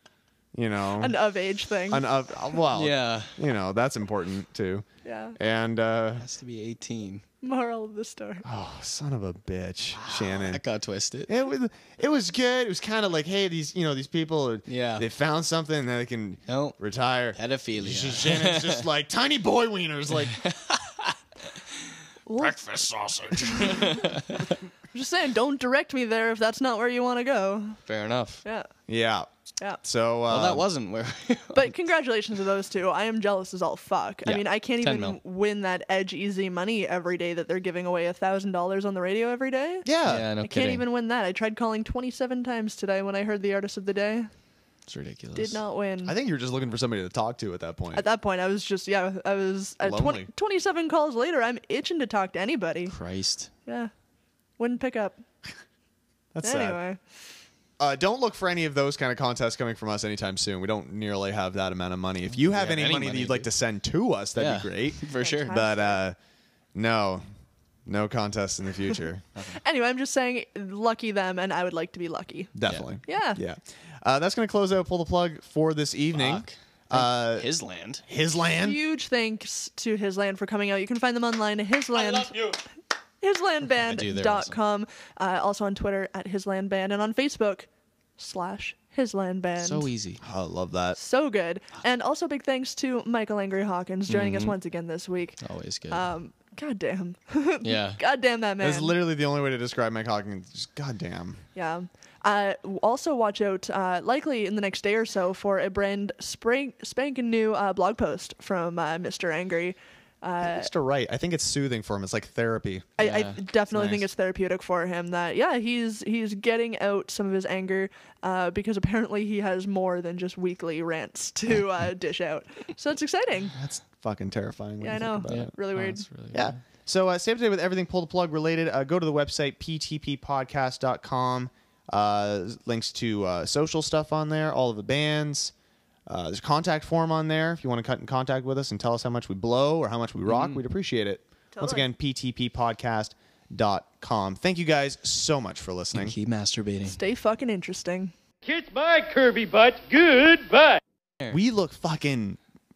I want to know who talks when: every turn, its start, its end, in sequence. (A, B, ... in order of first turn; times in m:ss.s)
0:00.5-0:01.2 A
0:01.0-0:02.0 B
0:01.9-0:04.8 A
0:02.7-0:03.4 C
0:05.0-0:05.4 B
0:05.4-0:06.2 A
0:06.2-0:07.2 C
0:07.4-0:08.4 B
0:08.4-0:10.6 A
0:10.0-0:11.3 C
0:11.3-0:20.4 A
0:14.7-0:15.0 C
0:16.5-0:16.8 C
0:17.3-0:18.8 C
0:20.3-0:21.2 C
0:22.3-0:22.6 B
0:22.4-0:24.5 C
0:23.5-0:23.9 B
0:24.9-0:27.8 B
0:27.9-0:28.4 C
0:28.9-0:29.3 A
0:29.8-0:30.6 A
0:30.3-0:31.7 C
0:31.5-0:39.8 B
0:34.2-0:35.2 C
0:39.8-0:40.3 A
0:40.0-0:40.8 C
0:40.4-0:44.3 B
0:44.9-0:45.6 C
0:45.3-0:46.1 B
0:46.0-0:48.0 A
0:47.9-0:52.9 B
0:49.8-0:50.3 A
0:52.9-0:53.5 C
0:53.6-0:53.9 B
0:54.6-0:55.2 B
0:56.3-0:56.8 A
0:56.4-0:57.0 B
0:57.8-1:06.2 A
1:02.3-1:03.5 C
1:04.4-1:05.6 C
1:05.2-1:06.0 B
1:06.7-1:07.2 A
1:07.8-1:09.2 A
1:09.4-1:09.6 C
1:09.6-1:12.5 B
1:12.5-1:17.4 A
1:12.6-1:13.0 C
1:13.0-1:13.4 B
1:16.1-1:18.0 C
1:18.1-1:18.8 A
1:18.6-1:22.4 B
1:22.1-1:22.6 C
1:23.2-1:29.9 B
1:23.8-1:24.6 C
1:29.6-1:30.2 C
1:30.2-1:31.0 A
1:31.0-1:38.9 B
1:34.1-1:34.5 C
1:35.4-1:36.1 C
1:37.6-1:38.0 C
1:38.6-1:41.4 A
1:41.6-1:50.7 B
1:50.4-1:52.9 A
1:53.0-2:03.5 B
1:53.0-1:53.4 C
1:53.7-1:54.0 A
2:03.6-2:05.6 A
2:04.8-2:06.1 B
2:05.3-2:06.6 C
2:06.3-2:15.5 A
2:16.1-2:26.1 A
2:20.3-2:20.6 C
2:21.5-2:21.9 B
2:25.9-2:27.0 C
2:26.8-2:28.1 B
2:28.4-2:30.8 D
2:31.3-2:32.4 A